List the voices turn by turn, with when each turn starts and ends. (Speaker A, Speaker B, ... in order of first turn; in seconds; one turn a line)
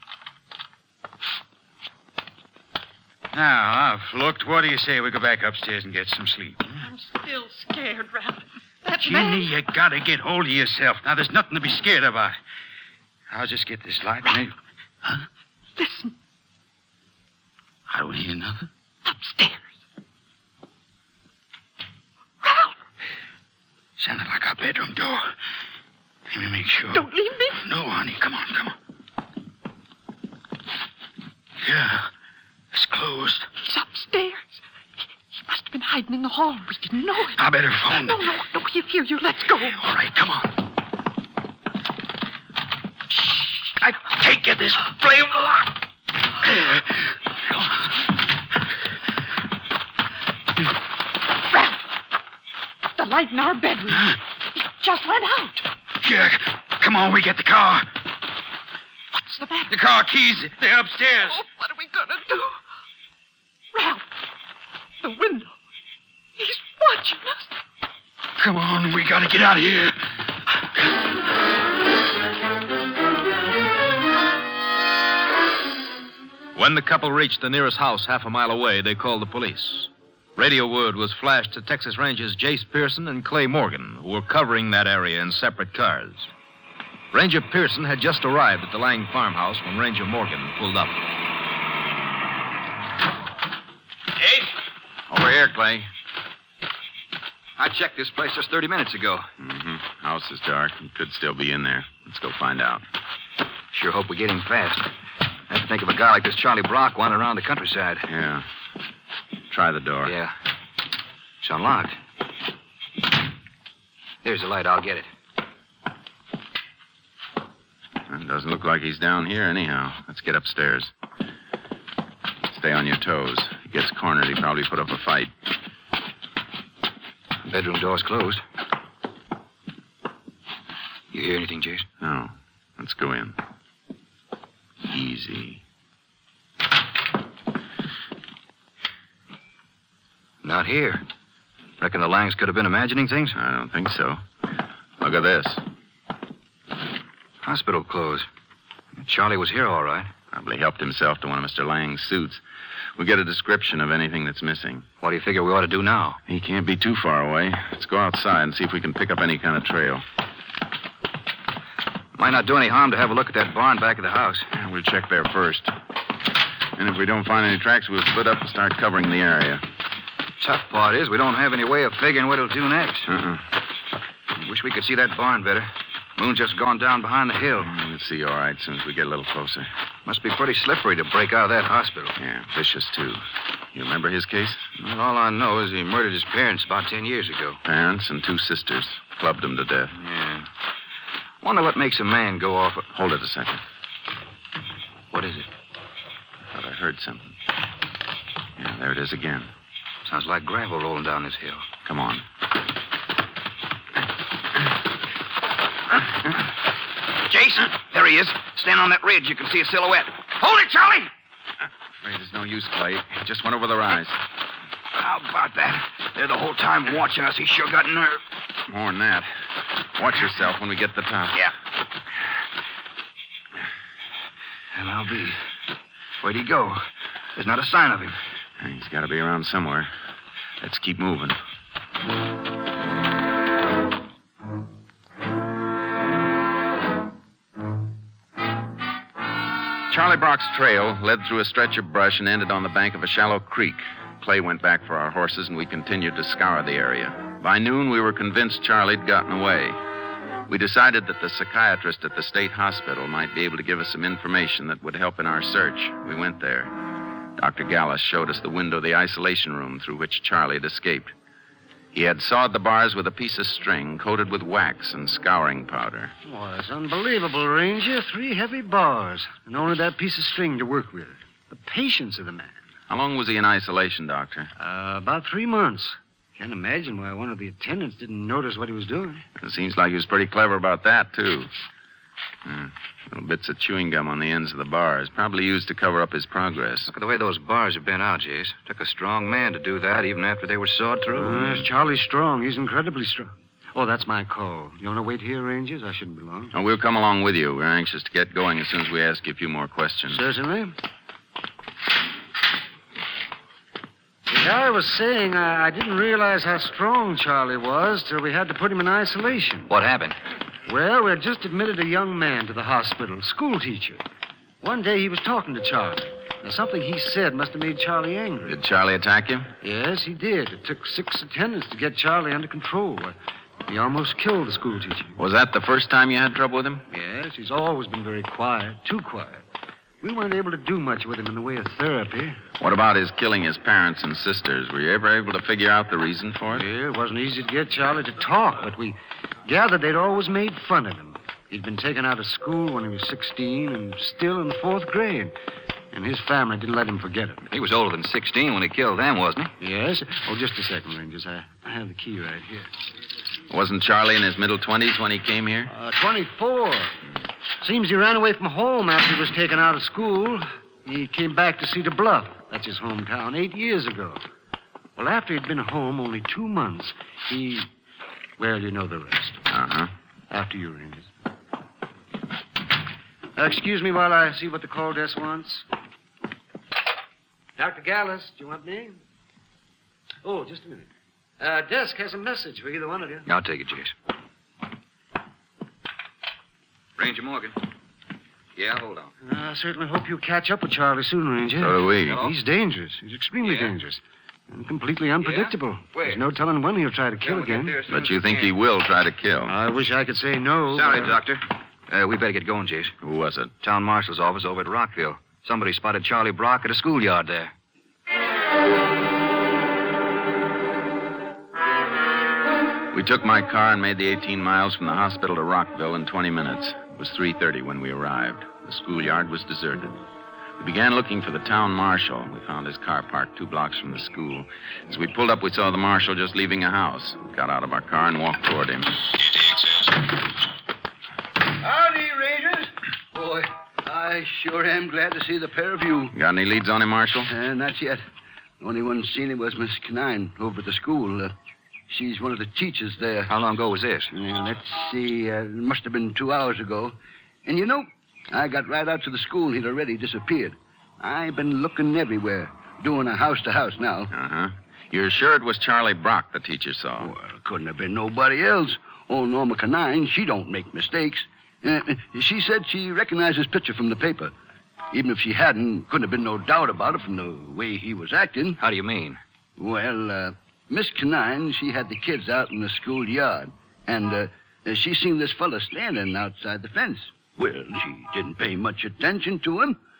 Speaker A: 3.3-6.9
Speaker B: 6.8-9.7
Speaker A: 9.0-12.4
Speaker A: 13.3-14.5
Speaker B: 15.8-16.1
Speaker A: 17.9-18.7
Speaker B: 19.0-19.6
Speaker B: 22.4-22.8
Speaker A: 24.0-25.3
Speaker A: 26.3-28.7
Speaker B: 26.9-27.6
Speaker A: 31.6-32.1
Speaker A: 32.7-33.5
Speaker B: 33.5-34.6
Speaker B: 35.3-39.8
Speaker A: 37.3-38.3
Speaker A: 39.6-40.5
Speaker A: 43.8-45.7
Speaker A: 46.4-47.9
Speaker B: 51.5-51.8
Speaker B: 53.0-55.6
Speaker A: 53.9-54.2
Speaker A: 56.0-57.9
Speaker B: 59.1-59.8
Speaker A: 59.7-61.4
Speaker B: 61.2-62.6
Speaker B: 63.7-64.0
Speaker B: 65.0-65.5
Speaker B: 66.4-67.5
Speaker A: 68.4-70.0
Speaker C: 76.5-86.3
Speaker C: 87.1-91.0
Speaker D: 95.1-95.9
Speaker E: 97.6-99.3
Speaker D: 99.4-102.8
Speaker E: 103.7-104.9
Speaker E: 105.5-108.0
Speaker D: 108.1-108.4
Speaker D: 109.5-110.1
Speaker E: 110.0-110.3
Speaker E: 111.4-111.9
Speaker E: 114.2-115.1
Speaker D: 118.1-120.9
Speaker D: 122.5-125.3
Speaker E: 127.5-128.4
Speaker E: 131.1-131.8
Speaker D: 132.0-133.3
Speaker D: 134.8-135.6
Speaker E: 140.4-141.0
Speaker E: 141.8-143.3
Speaker D: 143.4-144.2
Speaker D: 145.0-145.6
Speaker E: 147.4-148.3
Speaker E: 149.0-150.1
Speaker D: 150.3-152.4
Speaker D: 153.0-154.8
Speaker E: 155.0-156.2
Speaker D: 156.3-160.0
Speaker E: 162.2-164.5
Speaker D: 164.5-165.7
Speaker D: 166.8-169.6
Speaker E: 170.4-173.1
Speaker D: 173.1-173.4
Speaker E: 174.4-177.7
Speaker D: 177.6-179.7
Speaker E: 180.1-182.1
Speaker D: 182.2-184.7
Speaker E: 184.8-187.6
Speaker D: 187.6-189.9
Speaker E: 189.9-190.5
Speaker E: 191.4-192.9
Speaker D: 192.9-193.6
Speaker E: 195.1-195.5
Speaker D: 196.5-197.3
Speaker D: 198.6-199.5
Speaker E: 200.1-201.7
Speaker D: 201.8-202.2
Speaker E: 207.2-211.1
Speaker D: 212.0-214.2
Speaker E: 214.9-218.2
Speaker D: 218.7-219.3
Speaker D: 219.9-221.4
Speaker E: 224.7-225.4
Speaker E: 226.2-228.2
Speaker D: 228.6-229.9
Speaker D: 230.6-231.4
Speaker D: 239.9-249.8
Speaker D: 250.5-256.7
Speaker D: 257.4-261.1
Speaker D: 261.9-266.1
Speaker F: 266.2-272.6
Speaker D: 272.9-274.5
Speaker F: 274.6-279.2
Speaker D: 279.4-281.5
Speaker D: 282.4-286.9
Speaker E: 286.9-291.7
Speaker F: 291.1-296.5
Speaker D: 296.5-300.2
Speaker F: 300.1-300.7
Speaker F: 304.3-309.7
Speaker E: 309.7-310.1
Speaker F: 310.6-314.0
Speaker F: 314.6-318.6
Speaker D: 318.4-319.5
Speaker F: 319.6-323.1
Speaker F: 323.7-325.1
Speaker D: 325.2-326.8
Speaker F: 326.9-329.4
Speaker F: 330.0-332.4
Speaker D: 332.6-336.6
Speaker F: 336.5-345.3
Speaker F: 345.9-347.4
Speaker E: 347.5-349.5
Speaker F: 349.6-352.7
Speaker D: 353.5-355.7
Speaker F: 355.7-356.9
Speaker F: 357.6-364.2
Speaker F: 364.9-367.7
Speaker F: 368.4-369.4
Speaker D: 369.5-369.9
Speaker F: 370.3-371.1
Speaker F: 373.4-375.6
Speaker F: 377.6-379.0
Speaker F: 380.2-380.9
Speaker F: 381.4-383.3
Speaker E: 383.2-383.9
Speaker E: 387.0-387.6
Speaker E: 388.6-389.1
Speaker F: 389.2-397.9
Speaker D: 391.6-392.2
Speaker E: 393.4-393.7
Speaker E: 395.2-396.3
Speaker E: 397.2-398.5
Speaker D: 397.9-399.5
Speaker F: 399.5-401.2
Speaker E: 400.7-402.9
Speaker D: 403.0-403.5
Speaker E: 403.6-407.5
Speaker D: 412.9-419.9
Speaker D: 420.6-428.9
Speaker G: 431.6-436.1
Speaker D: 436.1-437.3
Speaker G: 437.3-438.0
Speaker G: 438.6-441.3
Speaker G: 441.9-443.3
Speaker E: 443.3-444.1
Speaker G: 444.1-454.1
Speaker D: 454.1-457.1
Speaker G: 457.0-464.3
Speaker G: 464.9-468.6
Speaker E: 468.6-469.2
Speaker G: 469.6-479.8